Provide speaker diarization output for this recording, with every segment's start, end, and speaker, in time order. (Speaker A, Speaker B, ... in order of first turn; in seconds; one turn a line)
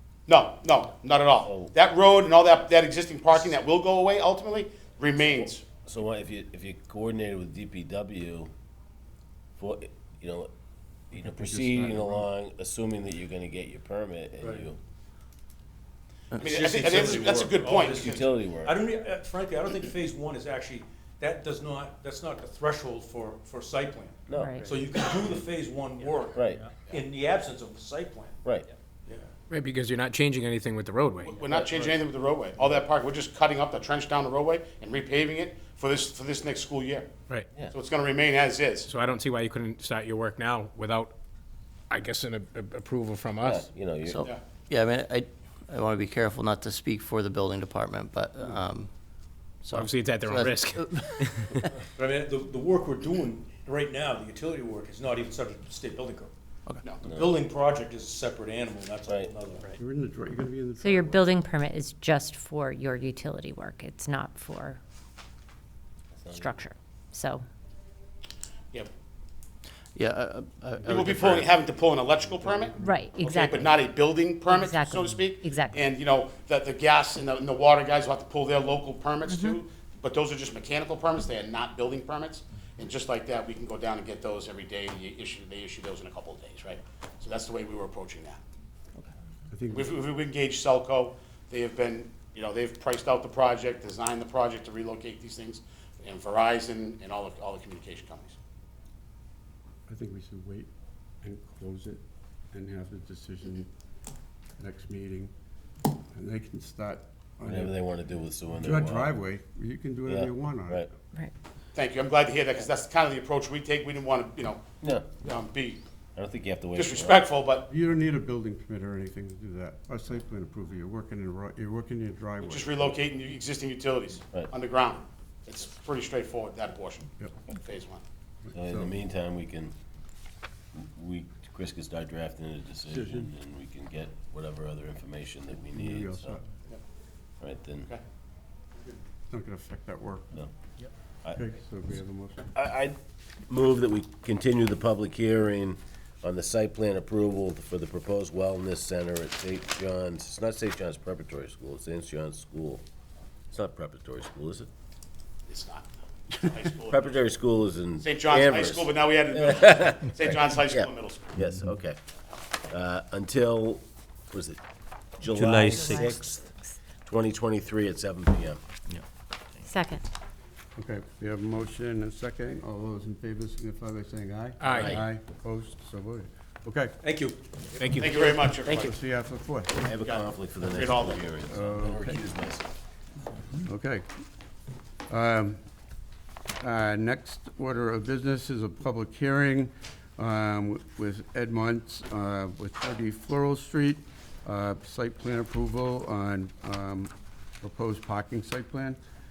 Speaker A: 0.3-5.6
Speaker B: 1.4-1.7
Speaker B: 5.8-8.5
Speaker B: 9.6-10.5
Speaker B: 11.1-14.8
Speaker C: 11.4-12.0
Speaker D: 16.4-28.4
Speaker A: 16.4-18.3
Speaker B: 17.2-18.8
Speaker B: 24.3-25.3
Speaker E: 24.3-24.7
Speaker B: 26.3-26.7
Speaker D: 29.1-29.3
Speaker F: 29.5-31.4
Speaker A: 31.2-37.1
Speaker A: 37.7-38.9
Speaker F: 38.8-41.1
Speaker F: 41.9-43.7
Speaker B: 43.4-44.2
Speaker G: 44.0-48.9
Speaker G: 49.6-51.7
Speaker F: 49.7-51.5
Speaker D: 52.0-56.3
Speaker B: 57.0-57.3
Speaker D: 57.0-59.8
Speaker B: 59.0-59.3
Speaker C: 59.8-61.4
Speaker E: 60.8-64.8
Speaker B: 66.2-66.5
Speaker E: 66.3-67.4
Speaker G: 69.9-71.5
Speaker A: 70.8-88.4
Speaker E: 72.8-73.7
Speaker E: 74.5-75.8
Speaker E: 79.3-79.6
Speaker C: 89.5-89.9
Speaker A: 89.7-98.3
Speaker C: 99.9-100.7
Speaker C: 101.2-103.7
Speaker C: 104.6-105.3
Speaker C: 106.1-107.7
Speaker B: 107.4-109.1
Speaker C: 108.6-110.9
Speaker B: 110.1-110.9
Speaker A: 111.7-114.6
Speaker B: 114.8-115.1
Speaker A: 115.1-115.8
Speaker B: 116.2-117.2
Speaker A: 116.7-117.7
Speaker C: 117.7-122.9
Speaker A: 122.4-128.0
Speaker C: 128.4-129.0
Speaker B: 128.5-129.7
Speaker B: 130.7-136.4
Speaker C: 132.9-133.3
Speaker C: 135.7-136.5
Speaker B: 137.4-137.9
Speaker C: 139.3-140.4
Speaker C: 141.3-142.5
Speaker B: 142.5-142.9
Speaker B: 143.5-152.8
Speaker B: 153.5-154.7
Speaker A: 155.5-157.2
Speaker B: 156.9-162.0
Speaker A: 158.0-161.3
Speaker B: 162.7-164.6
Speaker B: 165.2-166.4
Speaker G: 165.3-165.9
Speaker E: 165.5-166.5
Speaker B: 167.0-168.6
Speaker E: 169.6-170.0
Speaker C: 170.8-176.9
Speaker F: 174.6-175.0
Speaker B: 174.7-175.1
Speaker D: 177.0-177.4
Speaker F: 177.7-178.6
Speaker A: 177.8-178.9
Speaker C: 178.8-179.9
Speaker B: 179.8-182.7
Speaker A: 180.0-181.3
Speaker C: 181.4-182.2
Speaker C: 183.6-184.1
Speaker C: 185.1-185.6
Speaker C: 186.6-199.0